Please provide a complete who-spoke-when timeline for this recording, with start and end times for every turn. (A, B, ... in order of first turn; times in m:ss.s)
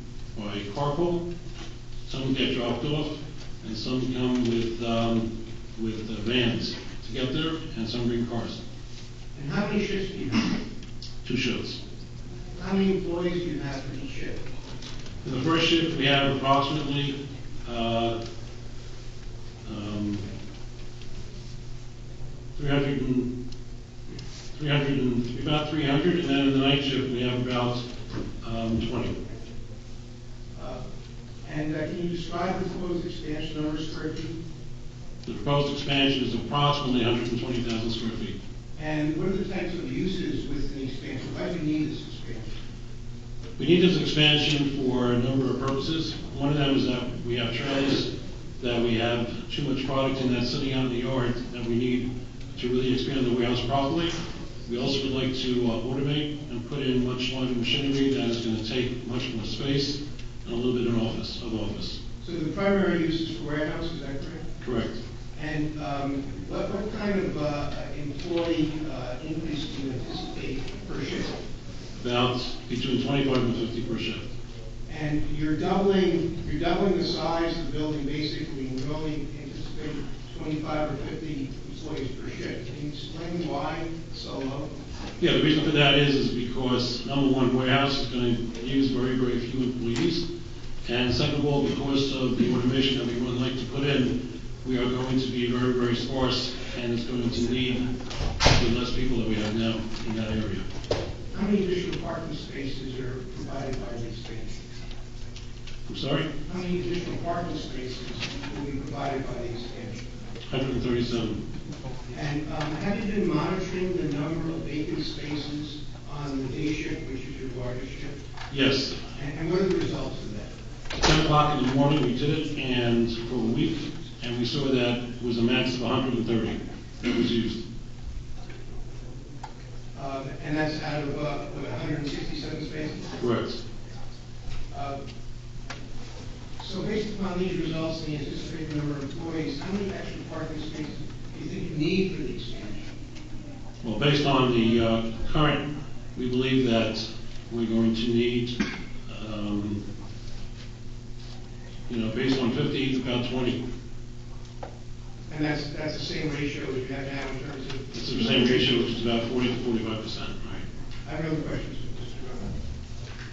0:00.4-0:01.2 A
0:02.1-0:08.6 A
0:09.3-0:10.5 B
0:11.2-0:11.8 A
0:12.6-0:14.4 B
0:15.2-0:18.2 A
0:19.6-0:20.3 A
0:22.6-0:23.3 A
0:24.5-0:27.8 A
0:28.4-0:29.2 A
0:30.6-0:30.8 B
0:31.4-0:34.4 B
0:35.3-0:38.4 A
0:38.8-0:42.5 B
0:43.6-0:54.2 A
0:54.7-1:02.0 A
1:02.2-1:04.4 B
1:04.6-1:05.0 A
1:05.4-1:11.3 B
1:12.0-1:14.3 A
1:14.9-1:24.7 B
1:25.2-1:30.3 A
1:30.8-1:37.9 A
1:38.5-1:40.6 A
1:41.3-1:44.6 B
1:45.9-1:46.3 A
1:46.5-1:50.0 B
1:50.5-1:51.4 A
1:52.1-1:58.2 B
1:58.5-1:59.0 A
1:59.1-2:00.5 B
2:01.0-2:07.6 A
2:10.0-2:13.1 B
2:13.2-2:13.6 A
2:14.7-2:15.0 B
2:16.6-2:22.9 B
2:23.8-2:25.6 A
2:26.2-2:29.8 A
2:31.9-2:33.6 A
2:35.3-2:38.7 B
2:37.9-2:40.6 A
2:41.0-2:42.5 B